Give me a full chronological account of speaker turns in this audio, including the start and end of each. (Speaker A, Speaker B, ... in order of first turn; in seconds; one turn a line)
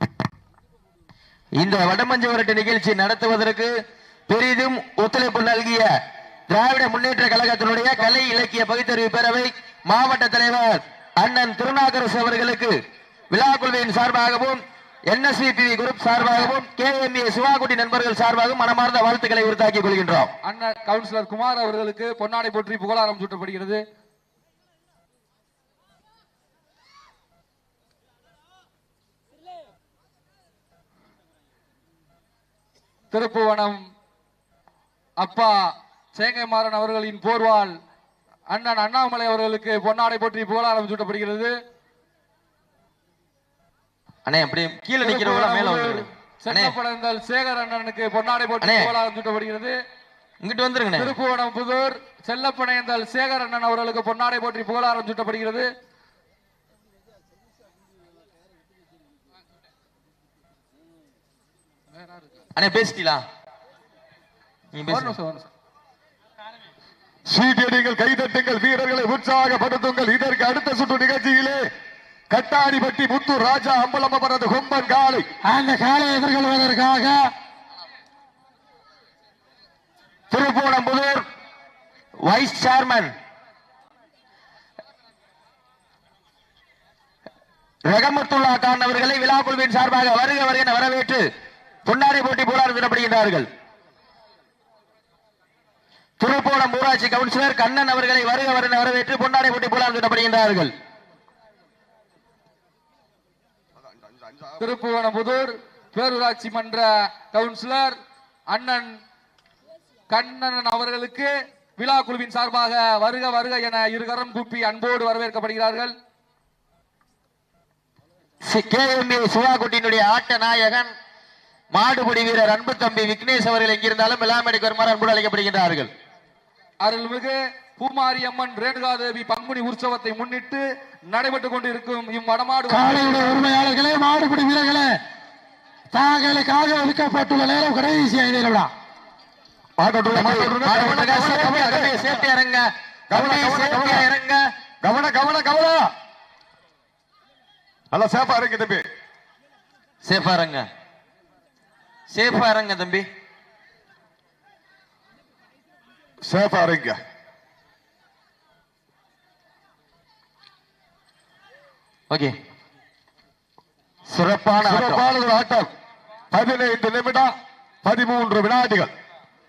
Speaker A: 1.6-3.7
Speaker A: 4.3-5.9
Speaker A: 6.5-12.8
Speaker A: 13.3-20.3
Speaker B: 20.4-23.8
Speaker B: 33.1-33.8
Speaker B: 35.2-35.6
Speaker B: 36.1-37.7
Speaker B: 38.5-41.5
Speaker A: 44.2-46.8
Speaker B: 45.0-49.8
Speaker A: 48.6-48.9
Speaker A: 50.4-51.1
Speaker B: 51.0-55.7
Speaker A: 62.6-63.2
Speaker A: 64.7-65.2
Speaker B: 64.9-65.5
Speaker C: 67.3-71.6
Speaker C: 72.3-75.2
Speaker D: 75.5-77.1
Speaker A: 80.3-81.2
Speaker A: 82.2-83.1
Speaker A: 87.9-91.2
Speaker A: 91.8-93.5
Speaker A: 96.2-100.7
Speaker B: 104.6-108.0
Speaker B: 108.5-108.9
Speaker B: 110.1-116.0
Speaker A: 118.5-120.9
Speaker A: 121.7-125.9
Speaker B: 126.8-133.4
Speaker D: 132.7-134.9
Speaker D: 135.9-138.7
Speaker C: 139.8-142.3
Speaker A: 140.1-144.4
Speaker C: 143.1-144.1
Speaker C: 144.8-145.9
Speaker C: 147.9-148.8
Speaker A: 150.0-150.7
Speaker A: 152.1-153.1
Speaker C: 156.2-157.0
Speaker A: 164.1-165.1
Speaker C: 164.6-165.7
Speaker C: 166.3-167.3
Speaker C: 167.8-168.9